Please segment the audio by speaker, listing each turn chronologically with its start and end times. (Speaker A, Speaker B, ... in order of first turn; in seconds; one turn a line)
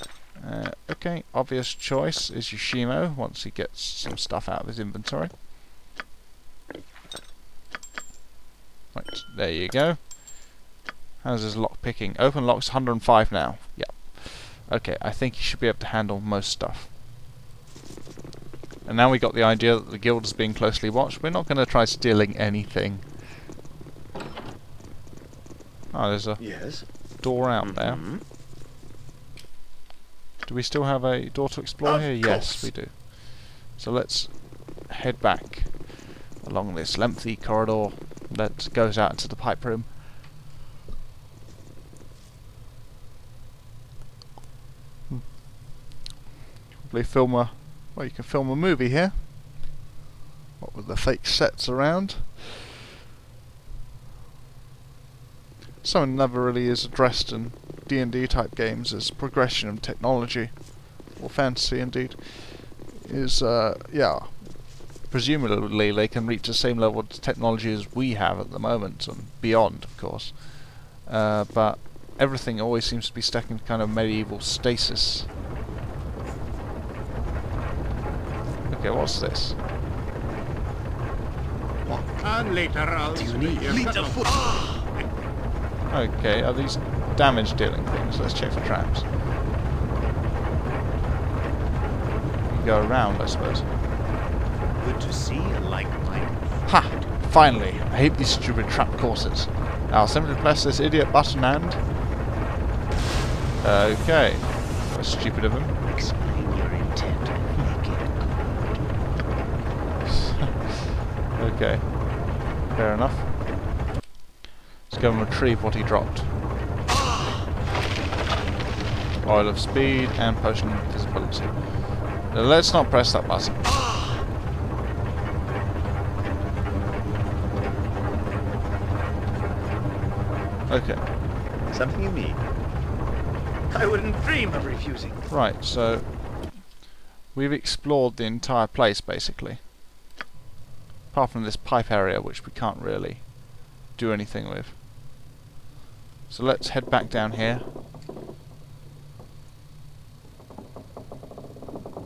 Speaker A: 0.3-5.3
Speaker A: 8.9-10.6
Speaker A: 11.2-16.9
Speaker A: 18.8-23.1
Speaker A: 25.9-28.1
Speaker B: 26.4-28.2
Speaker A: 30.4-39.9
Speaker B: 31.8-32.7
Speaker A: 46.8-49.7
Speaker A: 50.6-52.5
Speaker A: 55.8-75.3
Speaker A: 78.7-79.6
Speaker C: 82.2-84.8
Speaker B: 83.1-84.7
Speaker A: 85.9-89.1
Speaker A: 92.5-93.7
Speaker B: 94.8-97.0
Speaker A: 96.7-101.8
Speaker A: 103.6-105.7
Speaker B: 105.9-108.8
Speaker A: 110.1-110.7
Speaker A: 111.3-113.3
Speaker A: 114.9-116.3
Speaker A: 119.2-123.7
Speaker A: 130.7-131.1
Speaker B: 131.7-132.4
Speaker B: 133.7-135.2
Speaker A: 135.3-136.6
Speaker A: 137.3-139.6
Speaker A: 141.1-144.8
Speaker A: 146.3-147.7